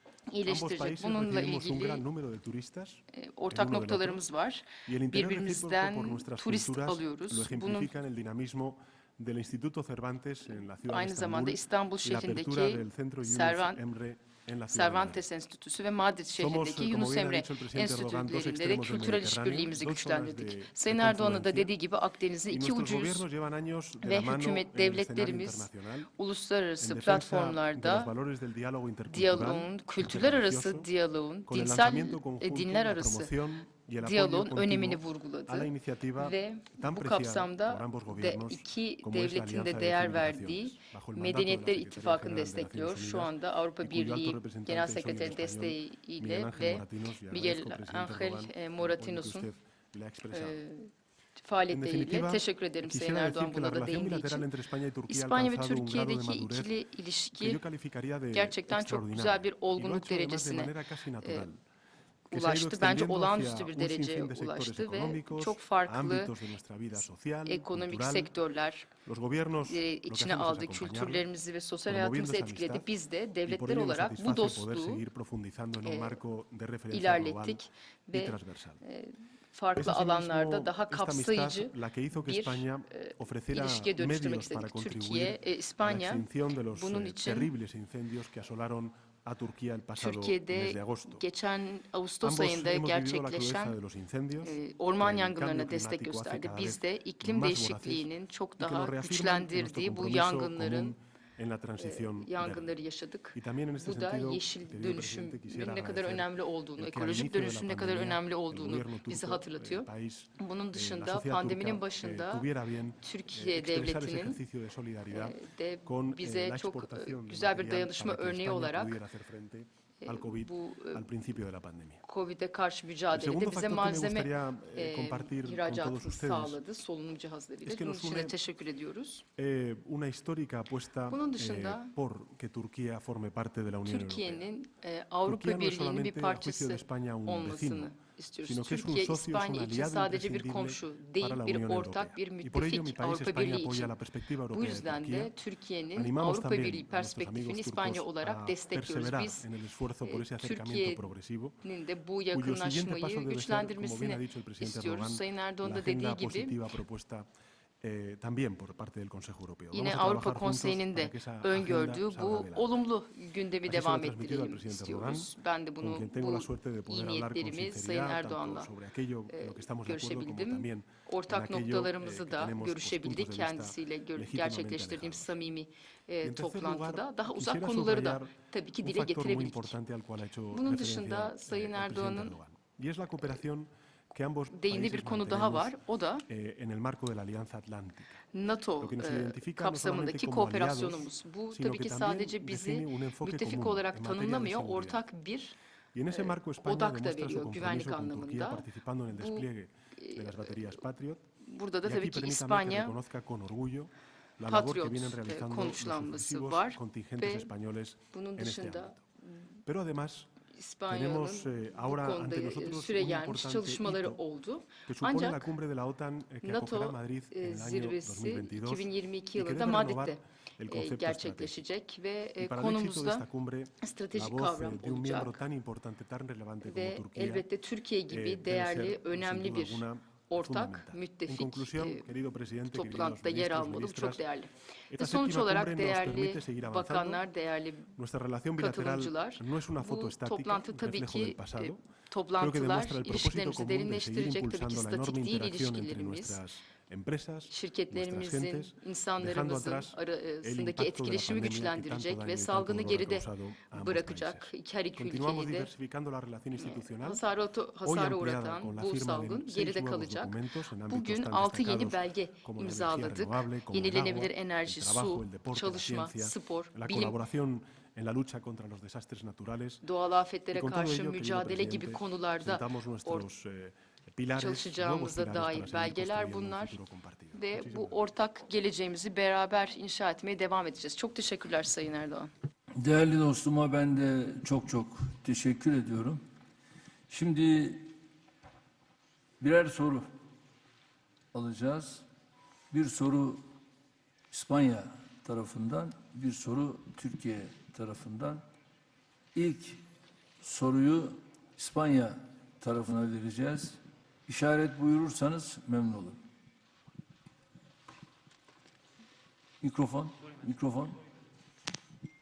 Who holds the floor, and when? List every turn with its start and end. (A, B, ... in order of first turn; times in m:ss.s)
0:00.3-0:02.0 A
0:00.5-0:04.2 B
0:03.1-0:07.9 A
0:04.9-0:15.2 B
0:10.8-0:13.8 A
0:14.7-0:23.3 A
0:16.4-0:21.7 B
0:22.5-0:26.1 B
0:24.0-0:28.1 A
0:26.8-0:30.9 B
0:29.1-0:33.3 A
0:31.5-0:50.6 B
0:34.0-0:49.5 A
0:50.3-0:54.5 A
0:51.7-0:56.7 B
0:55.1-0:57.6 A
0:57.4-1:01.6 B
0:58.3-1:01.5 A
1:02.3-1:06.3 A
1:02.3-1:08.3 B
1:07.5-1:08.9 A
1:09.0-1:11.3 B
1:09.7-1:15.0 A
1:11.9-1:12.9 B
1:13.4-1:18.8 B
1:15.8-1:16.2 A
1:16.9-1:27.5 A
1:19.8-1:31.2 B
1:30.0-1:33.8 A
1:32.2-1:38.1 B
1:34.4-1:41.0 A
1:38.6-1:42.8 B
1:41.8-1:52.5 A
1:43.3-2:02.0 B
1:53.0-1:54.4 A
1:55.1-1:59.0 A
2:00.0-2:01.0 A
2:02.0-2:09.2 A
2:03.1-2:06.6 B
2:07.6-2:08.4 B
2:09.4-2:14.5 B
2:11.1-2:11.9 A
2:13.8-2:24.0 A
2:15.3-2:25.3 B
2:24.5-2:29.4 A
2:26.0-2:31.6 B
2:30.0-2:31.1 A
2:31.6-2:36.6 A
2:32.3-2:37.3 B
2:37.8-2:42.7 B
2:39.7-2:48.7 A
2:43.7-2:55.3 B
2:49.3-2:59.8 A
2:56.2-3:08.2 B
3:00.5-3:02.4 A
3:04.5-3:06.2 A
3:08.3-3:15.6 A
3:08.8-3:15.0 B
3:15.9-3:21.3 B
3:16.1-3:20.6 A
3:21.4-3:23.0 A
3:21.8-3:29.0 B
3:24.5-3:27.5 A
3:28.1-3:29.4 A
3:29.7-3:30.3 B
3:30.5-3:35.5 A
3:30.9-3:34.2 B
3:34.9-3:41.6 B
3:36.4-3:43.3 A
3:42.4-3:47.5 B
3:43.8-3:45.4 A
3:46.6-3:52.1 A
3:48.1-3:54.2 B
3:52.7-3:57.9 A
3:54.9-3:57.2 B
3:58.0-4:01.8 B
3:58.6-4:06.4 A
4:02.4-4:17.2 B
4:07.5-4:15.7 A
4:16.6-4:20.4 A
4:17.8-4:29.8 B
4:20.9-4:27.2 A
4:29.8-4:33.3 A
4:30.5-4:38.0 B
4:34.4-4:36.8 A
4:37.3-4:42.3 A
4:42.8-4:46.2 C
4:47.1-4:47.9 C
4:49.4-4:50.0 C
4:51.3-4:52.0 C
4:52.7-4:53.4 C
4:54.3-4:58.4 C
4:59.3-4:59.8 C
5:00.4-5:06.2 C
5:09.6-5:11.0 C